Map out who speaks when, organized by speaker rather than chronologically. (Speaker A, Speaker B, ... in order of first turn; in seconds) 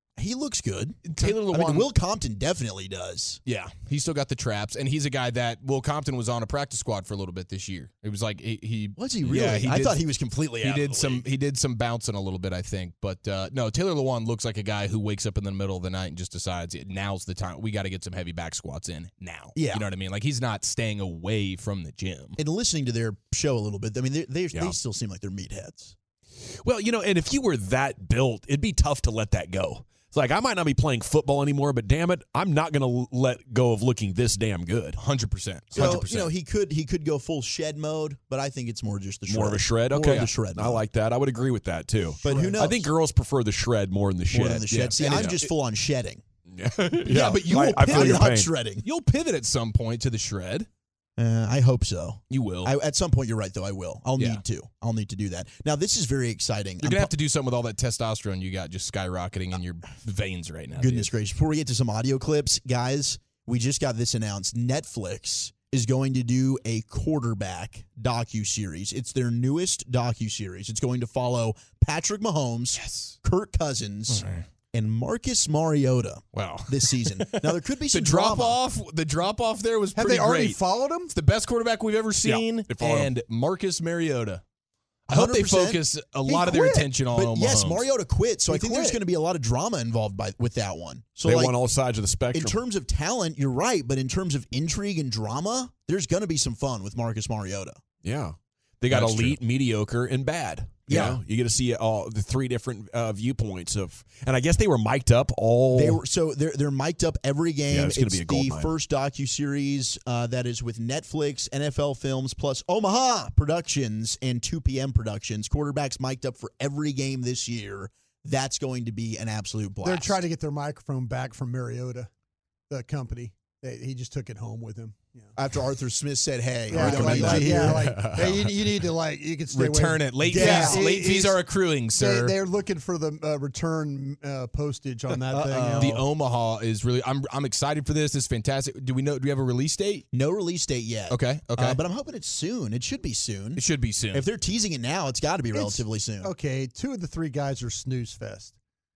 Speaker A: 0.2-3.4, 9.0-11.3, 19.6-19.9, 22.4-26.0, 35.8-40.8, 42.2-42.9, 44.3-46.2, 47.1-48.9, 51.2-57.1, 60.8-78.6, 85.1-91.6, 92.3-97.8, 98.9-99.3, 100.9-101.2, 105.7-120.2, 125.4-127.9, 130.2-130.8, 135.3-136.0, 140.1-146.3
Speaker B: 1.1-1.9, 3.5-10.0, 10.6-22.4, 35.0-36.3, 44.7-45.3, 47.7-48.2, 48.8-50.7, 52.3-52.7, 56.8-61.1, 72.7-73.2, 74.1-74.5, 76.3-84.4, 85.1-87.9, 126.7-128.6, 129.5-132.3, 135.8-140.1, 141.1-141.8, 143.6-144.3
Speaker C: 26.6-35.0, 35.7-36.1, 39.3-45.4, 46.5-48.5, 82.2-83.1, 91.2-92.6, 98.0-106.0, 107.7-108.7
Speaker D: 80.0-81.1, 119.8-122.1, 122.7-125.3, 126.7-131.4, 132.0-135.8, 145.5-148.5